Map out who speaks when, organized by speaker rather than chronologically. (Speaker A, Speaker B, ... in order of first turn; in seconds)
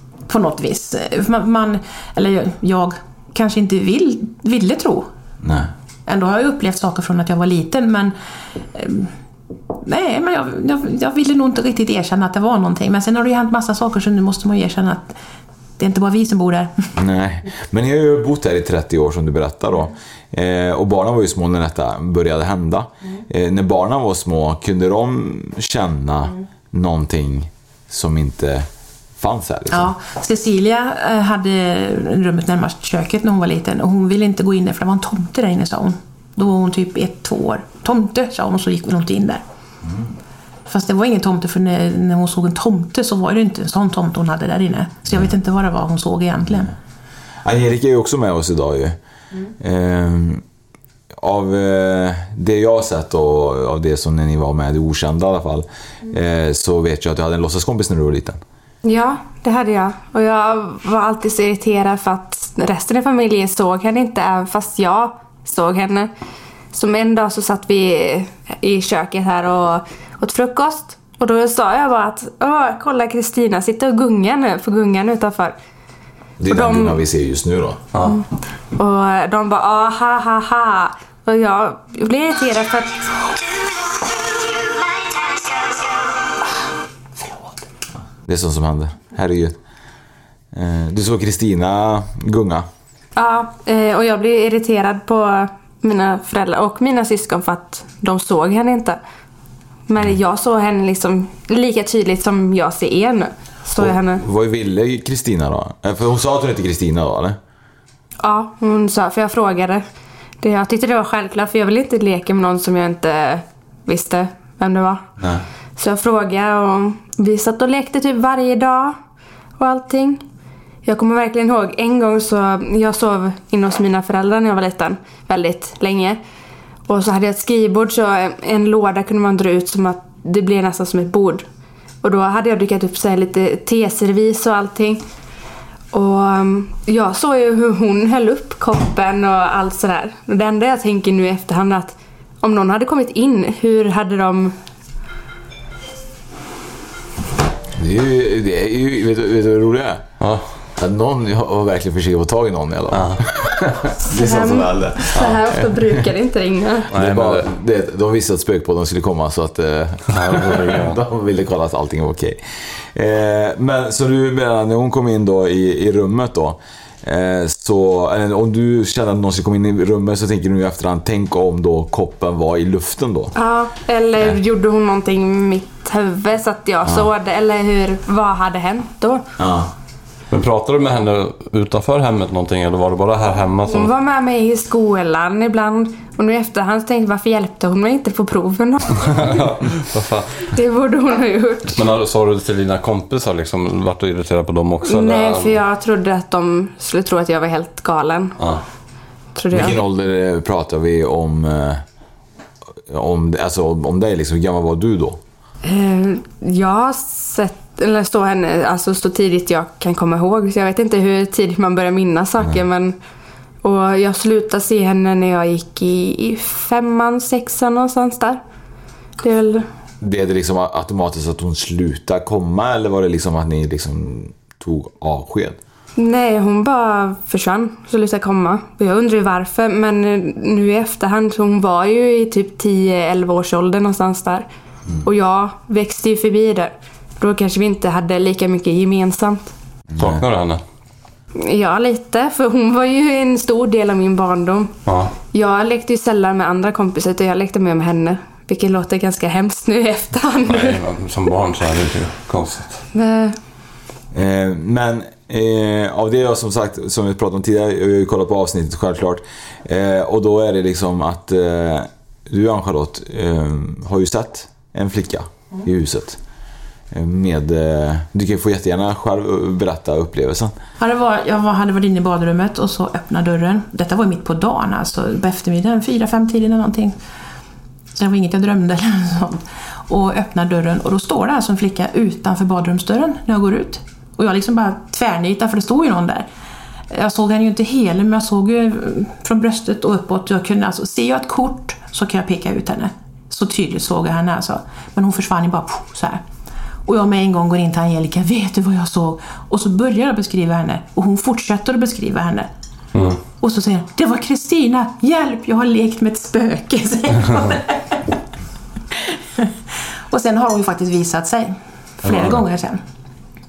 Speaker A: 0.3-5.1, 6.1-8.2, 8.7-9.1, 9.8-15.2, 15.8-16.7, 29.7-39.4, 40.7-46.7, 270.8-277.0, 278.0-286.3, 286.9-296.2, 296.9-302.5, 303.4-308.0, 309.1-309.5, 310.1-312.8
Speaker B: 5.4-5.7, 17.0-28.7, 29.2-29.9, 39.8-40.1, 46.5-46.7, 47.4-49.0, 49.6-50.4, 51.1-58.4, 76.4-77.8, 88.2-89.6, 90.5-92.7, 103.7-107.4, 147.8-150.1, 150.8-156.1, 156.9-173.3, 176.8-177.1, 179.4-179.7, 199.5-201.8, 202.9-205.2, 220.0-225.6, 239.9-240.2, 254.1-266.2, 266.9-270.6
Speaker C: 58.8-66.1, 66.7-75.6, 76.5-77.0, 78.8-83.1, 93.2-99.0, 99.9-104.2, 108.2-109.8, 110.4-115.0, 115.8-119.0, 119.6-120.2, 120.8-126.2, 126.9-131.5, 132.0-135.0, 135.9-144.6, 154.1-156.9, 173.4-179.2, 183.7-189.4, 190.5-191.8, 194.8-198.4, 199.4-199.8, 205.6-212.9, 213.6-218.4, 219.2-219.7, 226.0-234.5, 235.0-239.5, 241.4-244.7, 245.3-250.8, 252.9-253.4
Speaker D: 150.2-150.5, 152.9-153.2, 156.9-157.5, 160.1-161.0, 180.3-183.9, 188.9-190.5, 191.7-195.6, 240.0-240.6, 244.9-245.1, 250.5-252.8, 302.9-303.2